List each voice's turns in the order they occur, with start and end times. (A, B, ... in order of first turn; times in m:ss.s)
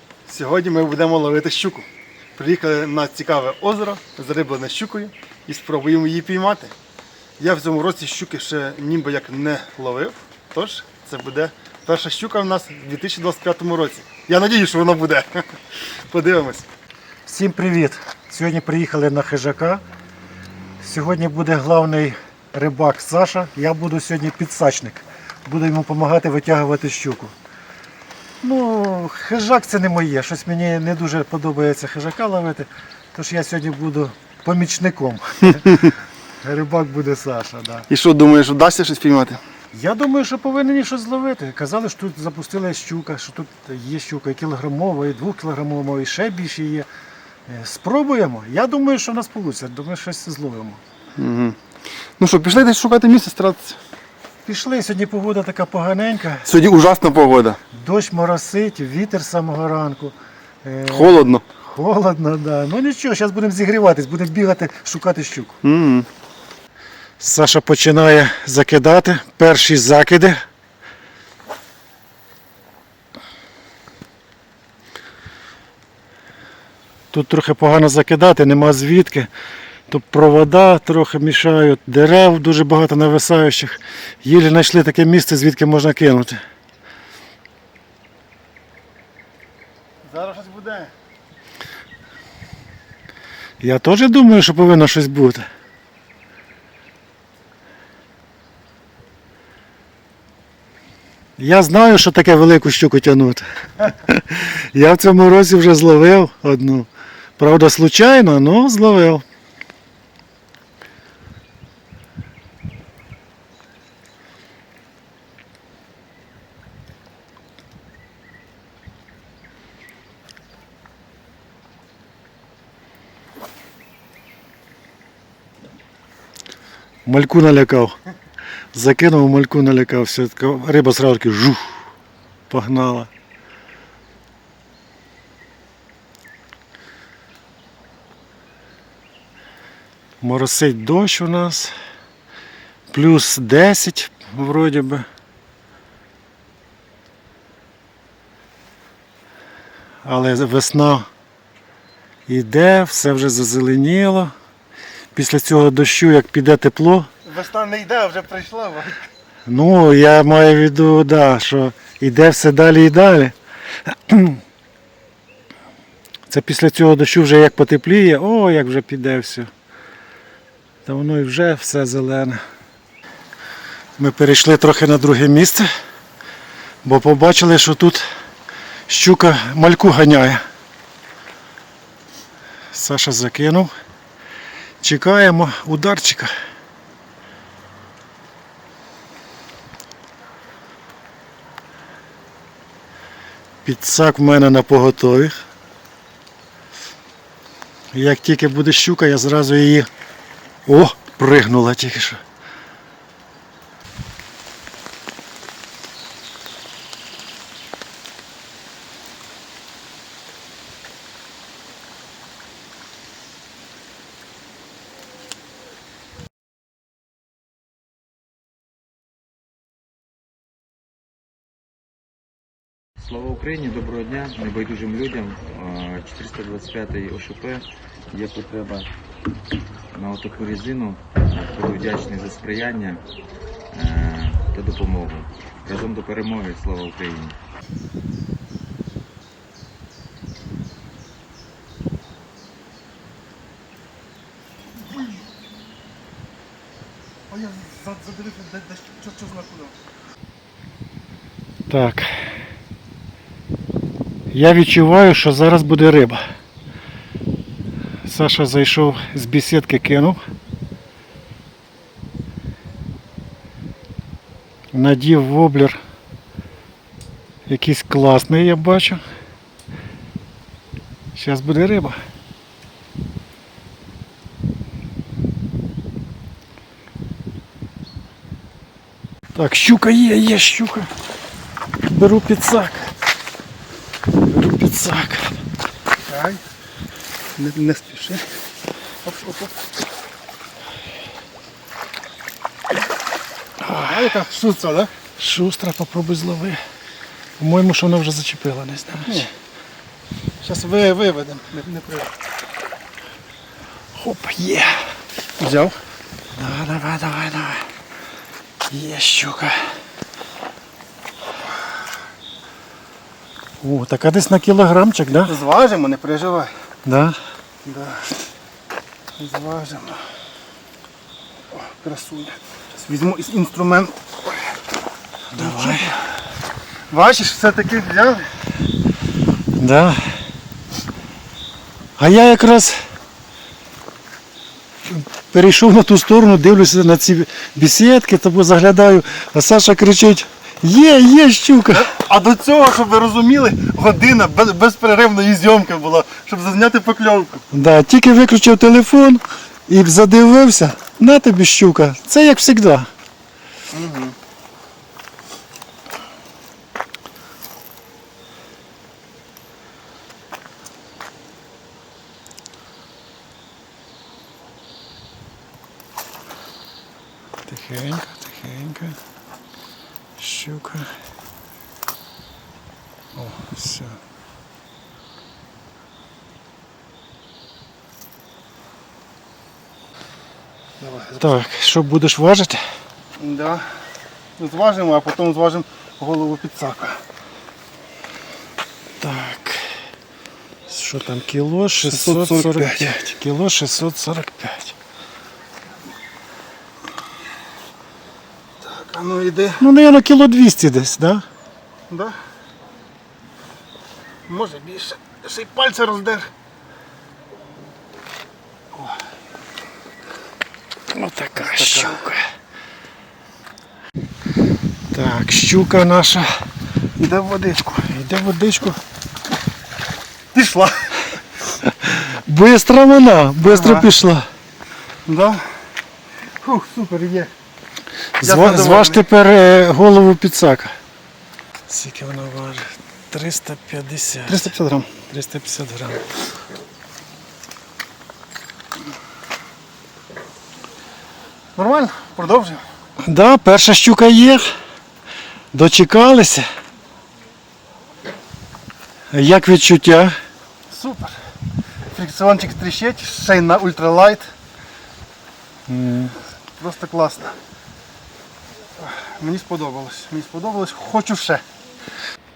0:00.3-0:06.7 A
0:07.4-0:15.4 A
0:16.1-0:16.6 A
0:17.2-0:19.8 B
0:20.8-0:27.3 B
0:28.4-0:35.9 B
0:35.5-0:35.9 A
0:36.4-0:37.9 B
0:37.9-0:39.4 A
0:39.7-0:46.9 B
0:47.5-0:50.8 B
0:51.2-0:51.6 A
0:52.2-0:53.8 A
0:54.4-0:56.5 B
0:56.4-0:57.6 A
0:57.7-1:05.6 B
1:00.9-1:01.4 A
1:05.6-1:06.0 A
1:07.2-1:10.4 B
1:17.1-1:19.3 B
1:19.9-1:26.4 B
1:30.0-1:30.9 A
1:33.6-1:35.4 B
1:41.4-1:49.2 B
2:07.0-2:08.0 B
2:08.7-2:11.8 B
2:12.5-2:13.1 B
2:20.2-2:21.7 B
2:22.9-2:25.0 B
2:30.0-2:31.1 B
2:32.3-2:34.3 B
2:35.1-2:37.1 B
2:37.2-2:39.0 A
2:39.5-2:44.4 B
2:46.3-2:49.5 B
2:50.8-2:52.4 B
2:54.0-2:55.7 B
2:56.8-2:58.0 B
2:58.9-3:00.4 B
3:02.7-3:03.7 B
3:04.8-3:06.3 B
3:13.6-3:15.4 B
3:17.9-3:19.9 B
3:20.6-3:22.2 B
3:43.0-3:48.9 C
3:49.9-3:53.0 C
3:53.7-3:57.4 C
4:07.3-4:09.7 A
4:11.7-4:12.1 B
4:14.3-4:16.2 B
4:18.0-4:20.2 B
4:24.7-4:25.8 B
4:27.5-4:29.0 B
4:31.1-4:32.0 B
4:39.3-4:40.9 B
4:41.8-4:42.9 B
4:44.3-4:45.3 B
4:46.1-4:46.4 A
4:47.4-4:48.3 A
4:49.0-4:49.5 A
4:53.6-4:54.1 B
4:53.8-4:54.9 A
4:55.2-4:56.6 B
4:57.4-4:59.2 B
4:59.0-4:59.3 A
5:00.4-5:02.1 A
5:03.9-5:04.8 B
5:05.4-5:05.8 A
5:06.4-5:07.6 B
5:08.7-5:09.6 B
5:13.6-5:15.3 B
5:15.2-5:16.5 A
5:16.8-5:17.2 B
5:17.6-5:18.0 A
5:19.2-5:20.0 A
5:21.5-5:24.4 A
5:25.3-5:25.9 B
5:25.4-5:26.1 A
5:26.9-5:28.2 A
5:29.6-5:30.1 B
5:32.0-5:32.8 B
5:34.9-5:41.9 B
5:41.7-5:47.4 A
5:47.5-5:52.9 B
5:53.7-5:54.1 A
6:07.4-6:09.0 B
6:10.2-6:10.9 B
6:13.1-6:14.0 B
6:20.8-6:21.4 A
6:21.2-6:22.6 B
6:23.2-6:23.6 A
6:24.4-6:27.0 A
6:29.0-6:29.7 B
6:30.7-6:34.7 B
6:31.8-6:33.1 A
6:38.6-6:39.6 A
6:39.6-6:41.2 B
6:41.9-6:42.2 A
6:44.3-6:46.3 A
6:48.7-6:49.0 A
6:50.9-6:52.2 B
6:51.4-6:52.0 A
6:54.9-6:56.3 B
6:57.0-6:57.9 A
6:57.9-6:58.8 B
7:00.3-7:01.0 A
7:01.6-7:04.2 B
7:03.4-7:03.9 A
7:05.0-7:05.4 A
7:06.4-7:07.3 A
7:08.2-7:10.8 B
7:08.2-7:09.0 A
7:11.7-7:14.5 B
7:14.2-7:14.9 A
7:15.1-7:16.1 B
7:21.6-7:22.6 A
7:23.0-7:24.5 B
7:25.5-7:26.4 B
7:29.1-7:30.1 B
7:30.7-7:31.2 A
7:31.9-7:34.3 A
7:35.7-7:36.1 B
7:36.6-7:37.3 A
7:38.8-7:41.4 A